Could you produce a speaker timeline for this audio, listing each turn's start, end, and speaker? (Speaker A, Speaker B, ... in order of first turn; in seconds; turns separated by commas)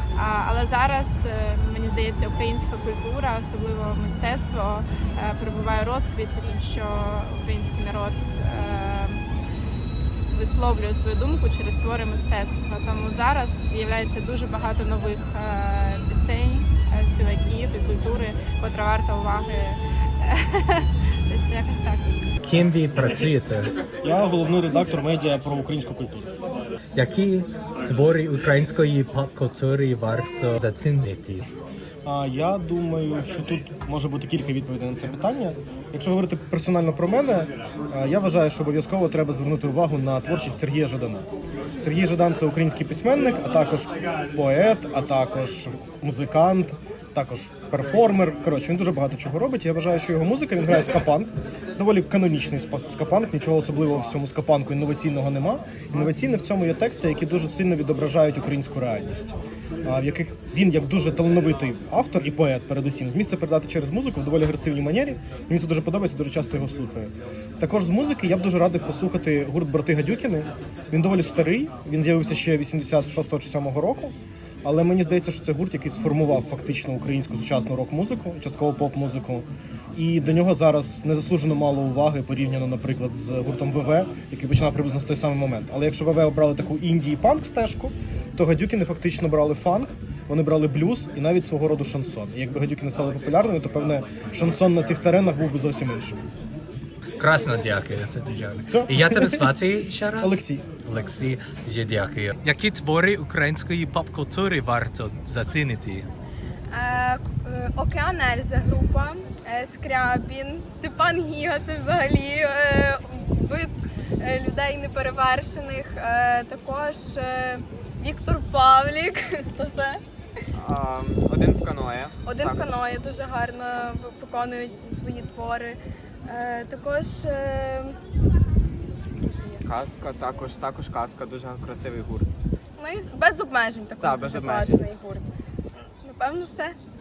Speaker A: 0.1-9.2, Speaker A: 10.3-22.1, Speaker B: 22.4-23.7, Speaker C: 24.0-26.3, Speaker B: 26.9-31.5, Speaker C: 32.0-41.2, Speaker C: 41.8-96.2, Speaker B: 97.2-106.1, Speaker C: 98.7-99.5, Speaker C: 100.2-100.7, Speaker D: 106.7-120.0, Speaker E: 120.5-122.7, Speaker D: 122.2-127.9, Speaker D: 129.2-129.6, Speaker E: 129.6-132.3, Speaker D: 132.8-135.3, Speaker E: 134.0-134.9, Speaker D: 136.0-136.8